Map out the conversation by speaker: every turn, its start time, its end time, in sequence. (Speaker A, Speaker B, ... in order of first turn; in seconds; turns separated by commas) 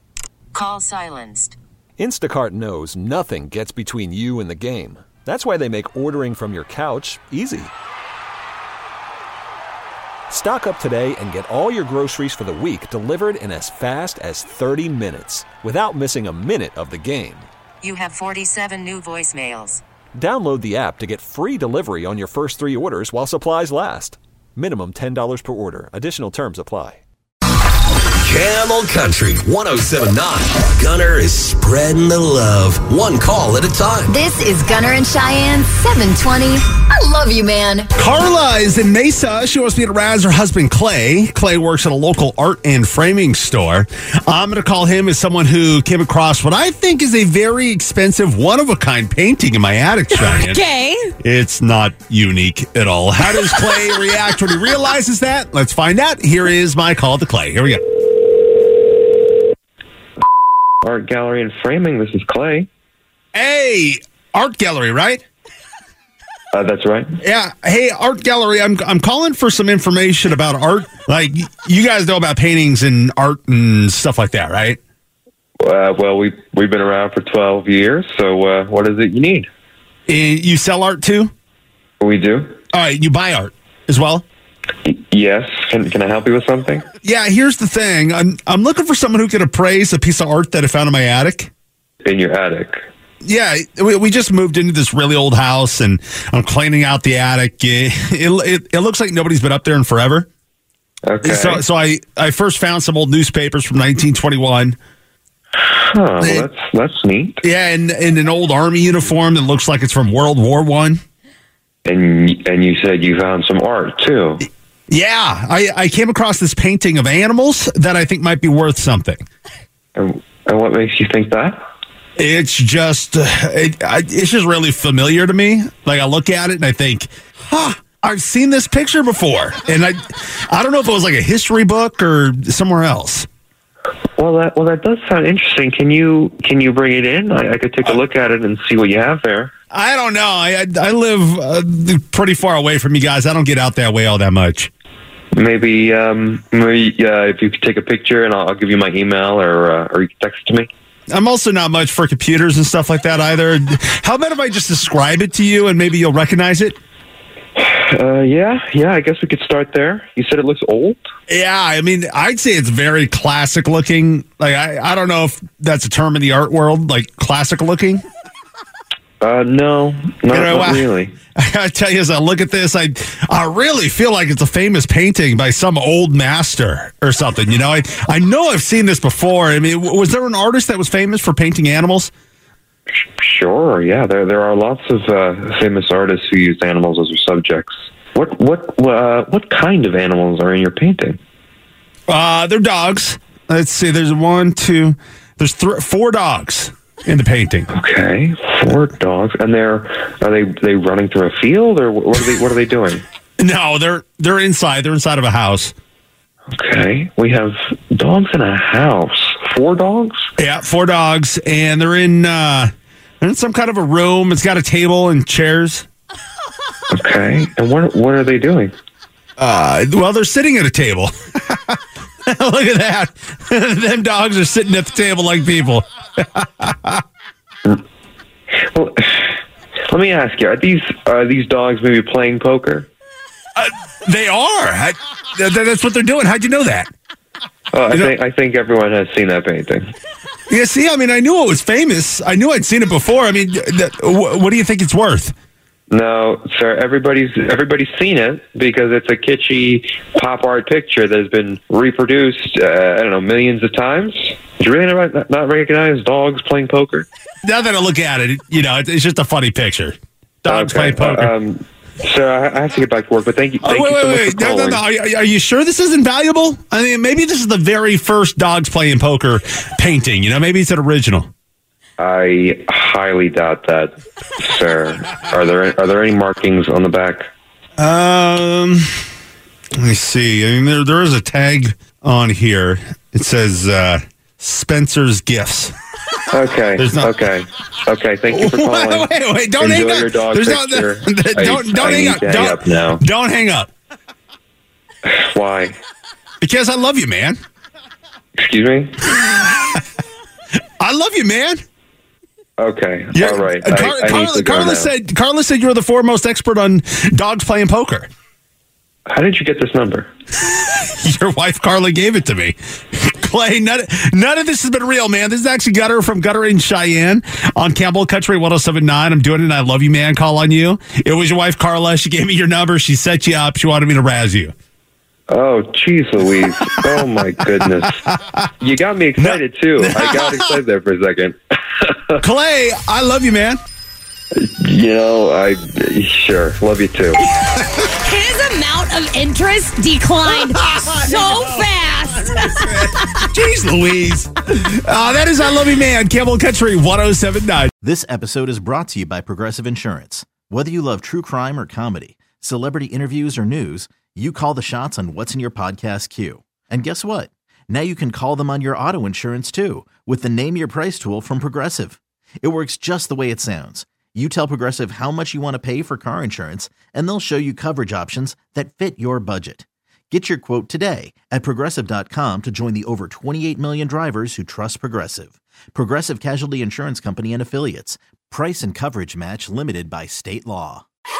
Speaker A: 0.5-1.6, Speaker B: 2.0-7.7, Speaker B: 10.3-17.5, Speaker A: 17.8-19.8, Speaker B: 20.1-27.0, Speaker C: 28.2-34.2, Speaker B: 29.6-30.3, Speaker D: 34.1-37.9, Speaker E: 38.0-50.6, Speaker F: 50.1-51.1, Speaker E: 51.2-57.8, Speaker G: 60.8-62.7, Speaker E: 63.3-65.2, Speaker G: 66.5-67.1, Speaker E: 67.2-74.8, Speaker G: 75.6-79.5, Speaker E: 80.1-81.3, Speaker G: 82.0-82.5, Speaker E: 82.7-84.2, Speaker G: 84.8-86.8, Speaker E: 87.0-91.5, Speaker G: 92.0-92.8, Speaker E: 93.2-100.3, Speaker G: 101.0-101.6, Speaker E: 101.2-104.8, Speaker G: 105.6-107.4, Speaker E: 106.2-106.5, Speaker E: 107.4-111.0, Speaker G: 111.8-114.5, Speaker E: 114.9-119.2, Speaker G: 119.9-121.6, Speaker E: 122.2-133.3, Speaker G: 134.2-139.5, Speaker E: 139.7-144.7, Speaker G: 145.3-150.7, Speaker E: 151.1-156.8, Speaker G: 157.6-161.0, Speaker E: 161.3-168.0, Speaker G: 169.2-171.1, Speaker E: 170.3-182.1, Speaker G: 183.2-191.2, Speaker E: 192.1-197.7, Speaker G: 197.7-203.0, Speaker E: 203.4-205.7, Speaker G: 206.5-210.2, Speaker E: 210.4-212.7, Speaker E: 213.2-215.9, Speaker G: 216.9-218.7, Speaker E: 219.4-227.0, Speaker G: 228.6-229.4, Speaker G: 229.9-232.9, Speaker E: 233.6-236.9, Speaker G: 237.7-239.9, Speaker E: 240.5-245.3, Speaker G: 245.9-257.1, Speaker E: 257.4-261.3, Speaker G: 260.4-264.8, Speaker E: 263.6-271.3, Speaker G: 272.0-277.2, Speaker E: 277.8-279.0, Speaker E: 279.8-285.7, Speaker G: 286.3-293.0, Speaker E: 286.8-287.1, Speaker E: 288.3-293.7, Speaker G: 295.1-295.8, Speaker E: 296.4-297.4, Speaker G: 298.4-299.0, Speaker E: 300.8-301.6, Speaker G: 302.6-304.9, Speaker E: 303.1-308.1, Speaker G: 309.1-310.1, Speaker E: 310.5-324.5, Speaker G: 325.3-328.0, Speaker E: 327.8-328.4, Speaker G: 328.6-332.2, Speaker E: 329.2-330.5, Speaker E: 332.2-333.6, Speaker G: 334.4-337.2, Speaker F: 338.0-342.7, Speaker E: 340.2-347.7, Speaker H: 347.8-380.8